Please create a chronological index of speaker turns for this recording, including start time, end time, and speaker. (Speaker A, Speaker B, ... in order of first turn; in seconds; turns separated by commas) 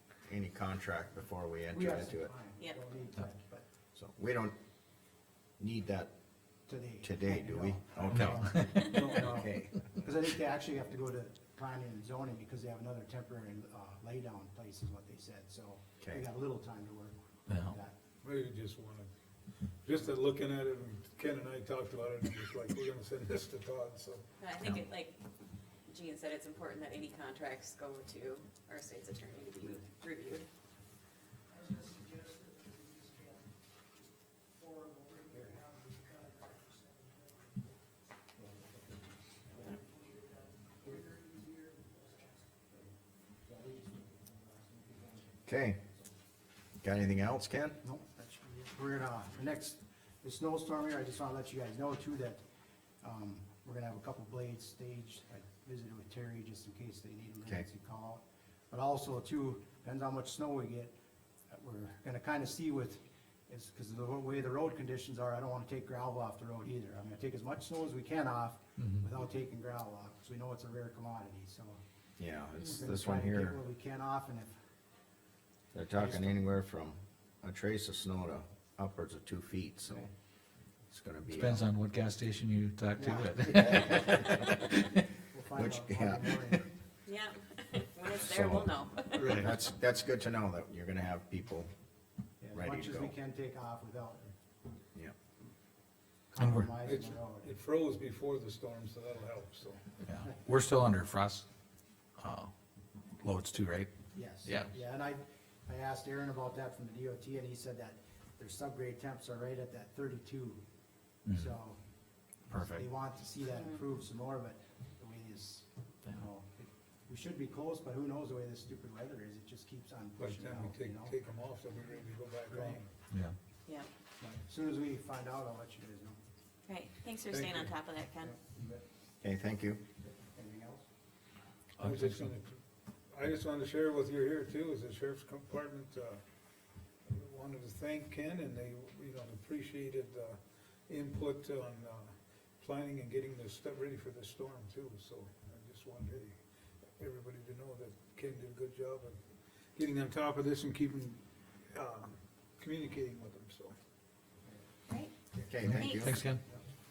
Speaker A: 0.2-2.3, Speaker B: 1.7-3.7, Speaker A: 4.0-4.5, Speaker A: 5.6-6.1, Speaker B: 6.7-17.9, Speaker A: 7.0-9.8, Speaker C: 8.2-8.9, Speaker C: 17.5-17.8, Speaker D: 18.2-19.1, Speaker D: 19.8-24.2, Speaker E: 24.4-25.2, Speaker E: 25.9-30.5, Speaker B: 35.1-35.9, Speaker B: 40.8-41.5, Speaker B: 43.5-45.4, Speaker A: 45.5-45.8, Speaker A: 46.8-47.8, Speaker B: 47.8-52.4, Speaker B: 53.0-61.0, Speaker B: 61.5-71.8, Speaker A: 72.2-73.6, Speaker B: 72.6-74.6, Speaker A: 75.7-80.1, Speaker B: 76.0-76.4, Speaker A: 80.9-81.6, Speaker C: 81.3-84.6, Speaker B: 83.0-84.0, Speaker A: 83.5-84.2, Speaker B: 85.3-86.7, Speaker A: 85.5-86.6, Speaker E: 87.1-89.5, Speaker A: 88.2-91.7, Speaker C: 89.2-89.5, Speaker B: 92.4-94.3, Speaker A: 92.5-93.1, Speaker B: 96.3-97.5, Speaker C: 96.4-96.7, Speaker D: 96.8-100.0, Speaker C: 100.0-101.5, Speaker C: 102.2-102.5, Speaker C: 103.2-103.9, Speaker B: 104.1-110.6, Speaker C: 104.4-104.7, Speaker C: 111.3-111.6, Speaker B: 111.3-111.8, Speaker C: 112.5-112.9, Speaker B: 112.6-121.2, Speaker D: 120.2-122.9, Speaker B: 121.8-122.9, Speaker C: 123.1-123.3, Speaker B: 124.2-126.2, Speaker E: 126.7-128.3, Speaker D: 127.3-127.7, Speaker B: 128.2-128.8, Speaker A: 129.2-129.8, Speaker B: 130.0-130.9, Speaker C: 131.8-132.3, Speaker D: 131.8-136.2, Speaker D: 137.1-146.4, Speaker D: 147.0-149.2, Speaker D: 149.8-151.2, Speaker D: 151.7-153.7, Speaker A: 155.4-156.2, Speaker C: 155.6-156.4, Speaker E: 155.8-156.1